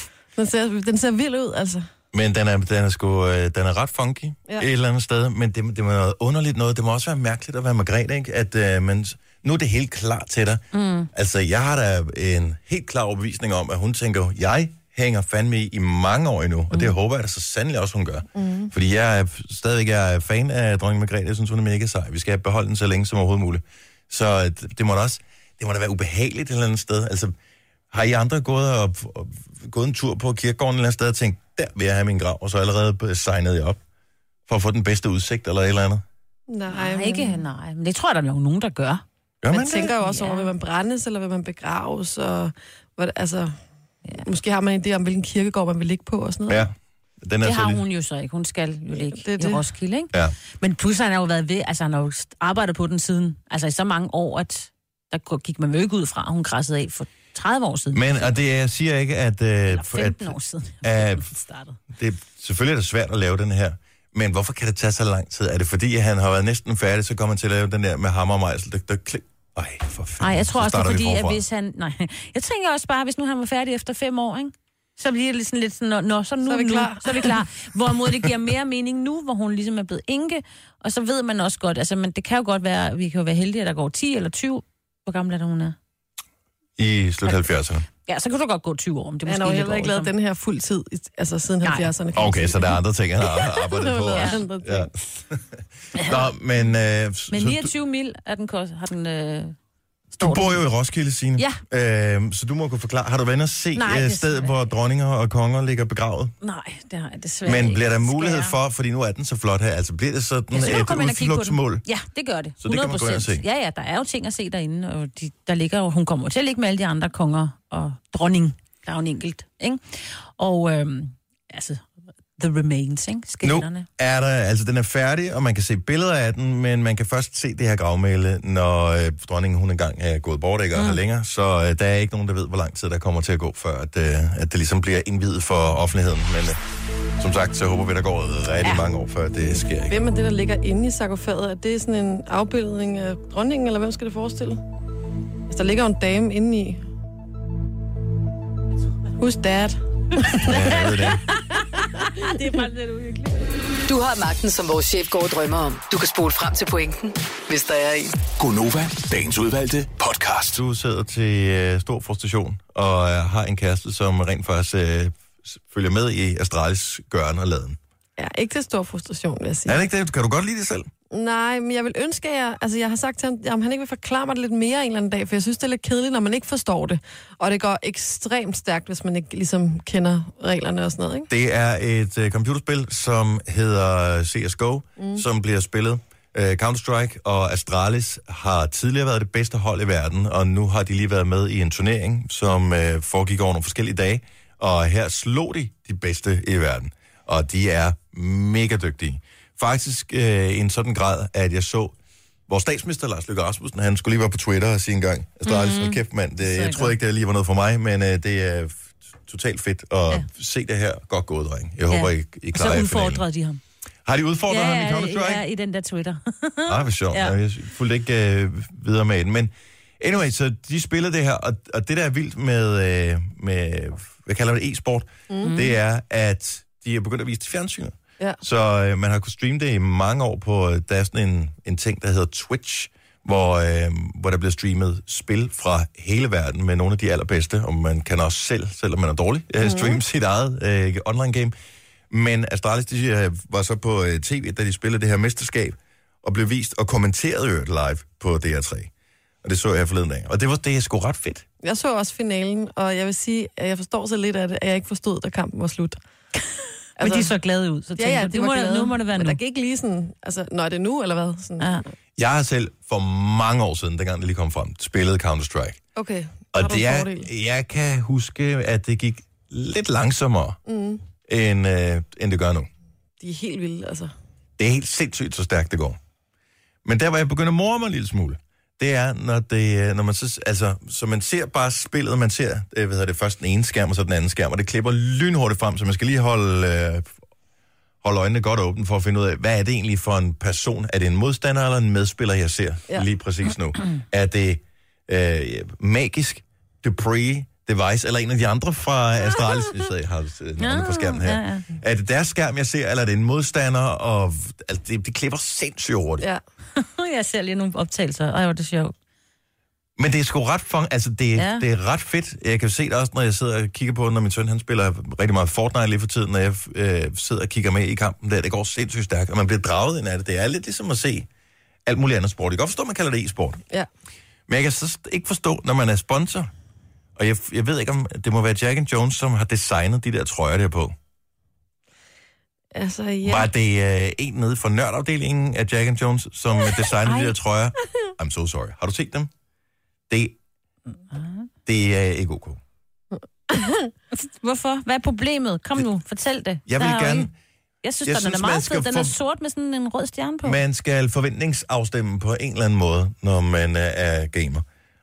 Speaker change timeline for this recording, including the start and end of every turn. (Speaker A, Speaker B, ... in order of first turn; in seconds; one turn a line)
Speaker A: 0.3-1.9
Speaker B: 2.1-27.3
Speaker C: 10.7-11.1
Speaker A: 18.3-18.7
Speaker B: 27.9-33.8
Speaker B: 34.5-36.0
Speaker A: 36.5-37.4
Speaker C: 36.7-39.0
Speaker B: 39.4-39.9
Speaker A: 39.5-43.5
Speaker C: 39.8-40.5
Speaker A: 44.2-46.7
Speaker B: 46.5-47.8
Speaker C: 47.4-58.3
Speaker A: 48.9-49.6
Speaker B: 57.9-61.3
Speaker C: 59.7-61.8
Speaker B: 61.9-71.4
Speaker C: 70.2-85.8
Speaker A: 76.4-77.3
Speaker B: 86.8-87.8
Speaker C: 88.0-90.1
Speaker A: 89.2-92.8
Speaker C: 91.6-91.9
Speaker B: 92.2-97.7
Speaker A: 93.5-94.9
Speaker C: 94.1-94.4
Speaker C: 97.3-99.5
Speaker C: 100.1-100.6
Speaker B: 100.2-106.3
Speaker C: 103.7-104.6
Speaker C: 106.4-108.5
Speaker B: 107.4-111.8
Speaker C: 110.5-121.8
Speaker B: 112.6-113.4
Speaker C: 122.4-123.9
Speaker B: 123.4-136.6
Speaker B: 137.2-140.0
Speaker A: 139.8-144.6
Speaker A: 145.5-146.8
Speaker A: 149.2-150.6
Speaker B: 150.4-151.2
Speaker C: 150.6-152.7
Speaker A: 152.0-152.7
Speaker D: 153.9-158.2
Speaker E: 158.4-160.6
Speaker B: 160.5-167.8
Speaker A: 168.2-169.8
Speaker B: 169.7-170.9
Speaker A: 171.1-181.3
Speaker B: 181.3-201.9
Speaker A: 185.0-185.2
Speaker B: 202.5-213.2
Speaker C: 205.4-206.9
Speaker C: 211.9-213.6
Speaker B: 214.0-215.4
Speaker C: 214.5-217.3
Speaker B: 216.7-241.5
Speaker C: 225.4-225.8
Speaker A: 239.6-240.0
Speaker B: 242.1-248.9
Speaker B: 249.4-251.4
Speaker A: 251.6-256.0
Speaker A: 257.0-257.3
Speaker C: 257.0-259.4
Speaker A: 258.0-261.8
Speaker B: 262.2-265.8
Speaker A: 265.9-267.3
Speaker B: 266.5-270.6
Speaker A: 270.6-271.0
Speaker B: 271.2-272.7
Speaker A: 273.2-274.1
Speaker B: 274.6-276.0
Speaker B: 276.8-287.1
Speaker B: 288.0-306.2
Speaker C: 300.6-301.6
Speaker C: 306.8-308.9
Speaker B: 310.0-321.3
Speaker C: 311.4-311.6
Speaker B: 321.9-323.6
Speaker B: 324.5-326.5
Speaker B: 327.1-330.9
Speaker A: 332.7-333.5
Speaker B: 333.2-339.3
Speaker C: 337.0-337.3
Speaker B: 340.1-340.4
Speaker C: 341.1-341.5
Speaker B: 341.6-342.6
Speaker A: 343.5-343.9
Speaker C: 344.1-347.3
Speaker B: 346.7-347.3
Speaker C: 347.8-350.6
Speaker B: 348.0-349.1
Speaker B: 350.4-354.6